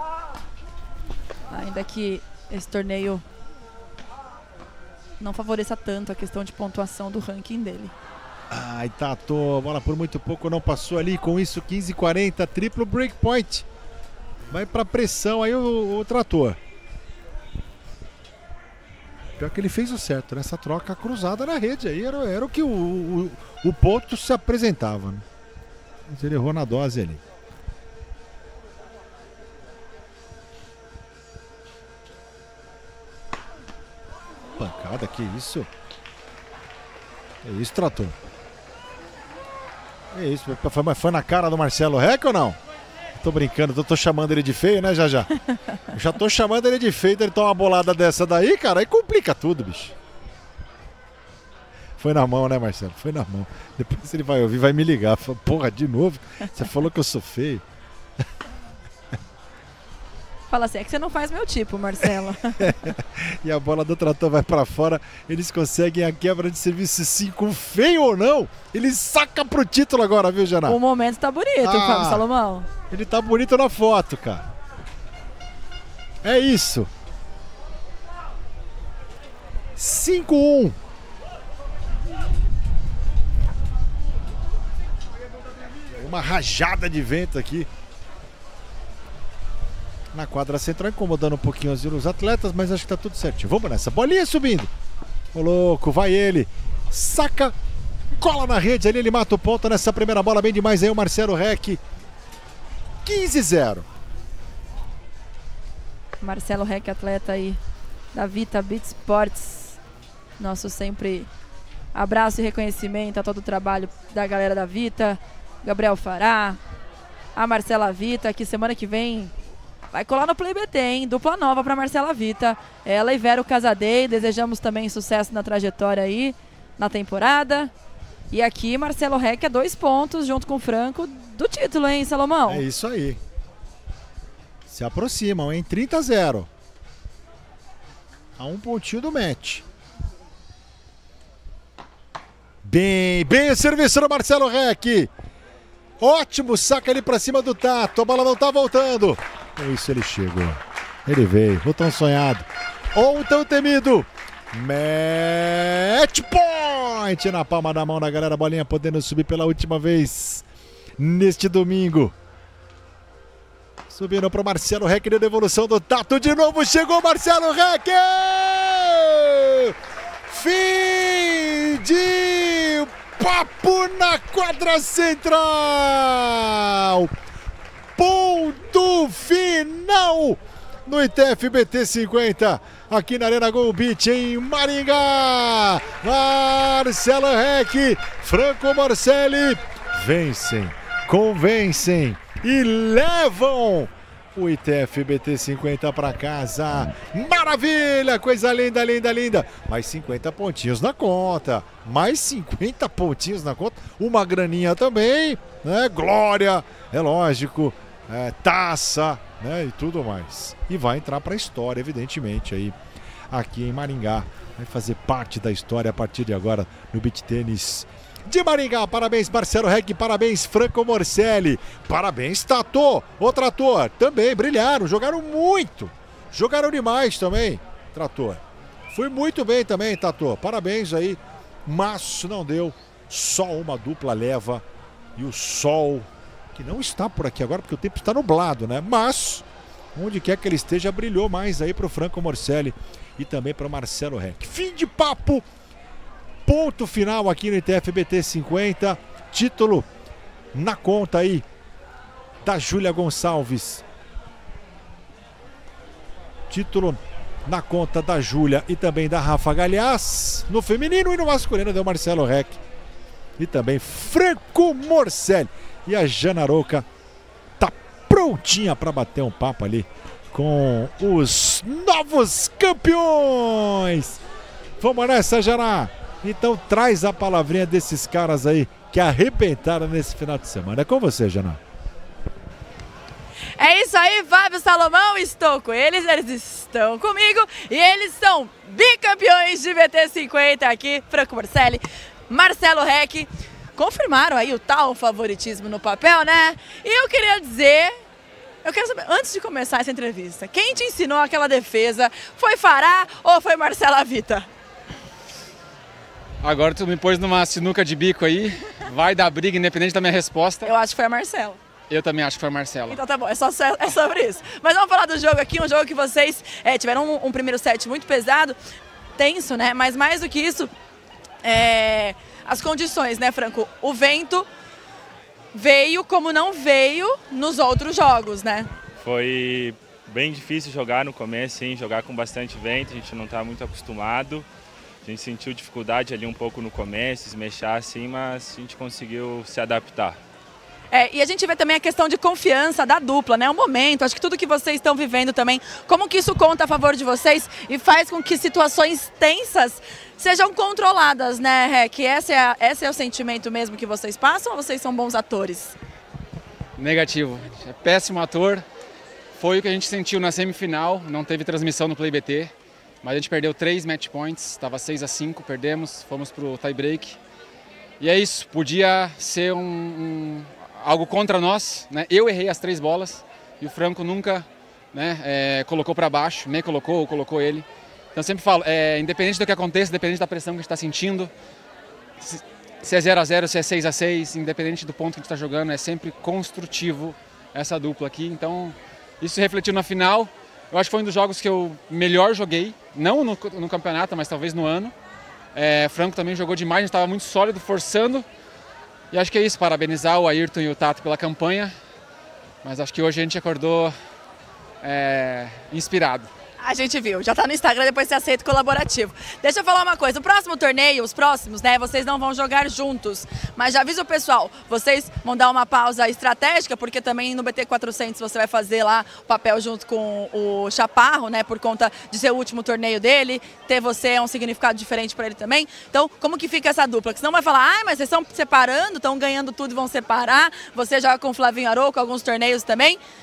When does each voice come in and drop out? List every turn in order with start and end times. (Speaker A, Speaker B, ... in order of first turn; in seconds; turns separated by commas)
Speaker A: 1.5-3.2, Speaker A: 5.2-7.9, Speaker B: 8.5-13.7, Speaker B: 14.5-16.6, Speaker B: 19.4-25.2, Speaker B: 26.1-27.2, Speaker B: 34.6-35.7, Speaker B: 37.4-38.1, Speaker B: 40.1-42.6, Speaker B: 43.2-45.3, Speaker B: 45.9-50.0, Speaker B: 52.0-57.6, Speaker A: 60.5-62.7, Speaker B: 62.6-70.8, Speaker A: 70.7-72.7, Speaker B: 71.6-72.2, Speaker B: 72.9-74.5, Speaker B: 76.2-76.9, Speaker B: 79.8-80.8, Speaker B: 85.9-87.7, Speaker B: 90.1-94.7, Speaker B: 95.3-97.5, Speaker B: 98.2-101.8, Speaker B: 103.0-103.9, Speaker A: 106.2-107.6, Speaker A: 108.1-109.8, Speaker A: 110.4-111.3, Speaker A: 111.9-116.6, Speaker A: 117.3-119.3, Speaker A: 119.9-127.7, Speaker A: 128.3-132.6, Speaker B: 132.5-133.2, Speaker B: 134.7-136.5, Speaker B: 138.4-139.7, Speaker B: 142.6-145.1, Speaker B: 146.0-160.4, Speaker B: 161.0-162.2, Speaker B: 163.9-169.8, Speaker B: 170.3-177.1, Speaker B: 178.0-212.8, Speaker B: 213.3-234.7, Speaker B: 235.2-245.5, Speaker B: 246.5-249.9, Speaker B: 250.5-251.4, Speaker B: 252.4-253.8, Speaker B: 256.5-262.6, Speaker B: 263.4-266.9, Speaker B: 267.6-274.2, Speaker B: 274.8-281.6, Speaker A: 283.6-298.0, Speaker A: 298.6-304.5, Speaker C: 306.4-310.7, Speaker A: 310.6-311.6, Speaker C: 311.9-313.0, Speaker A: 312.9-318.6, Speaker A: 319.2-320.7, Speaker A: 321.4-324.5, Speaker A: 325.5-328.7, Speaker D: 329.0-334.5, Speaker D: 335.0-340.2, Speaker A: 340.9-355.8, Speaker C: 356.8-358.6, Speaker C: 359.4-362.5, Speaker C: 363.0-367.2, Speaker C: 368.0-381.3, Speaker C: 382.2-394.9, Speaker C: 395.5-398.3, Speaker C: 399.1-401.7, Speaker C: 402.6-403.9, Speaker C: 404.8-406.3, Speaker A: 406.6-433.0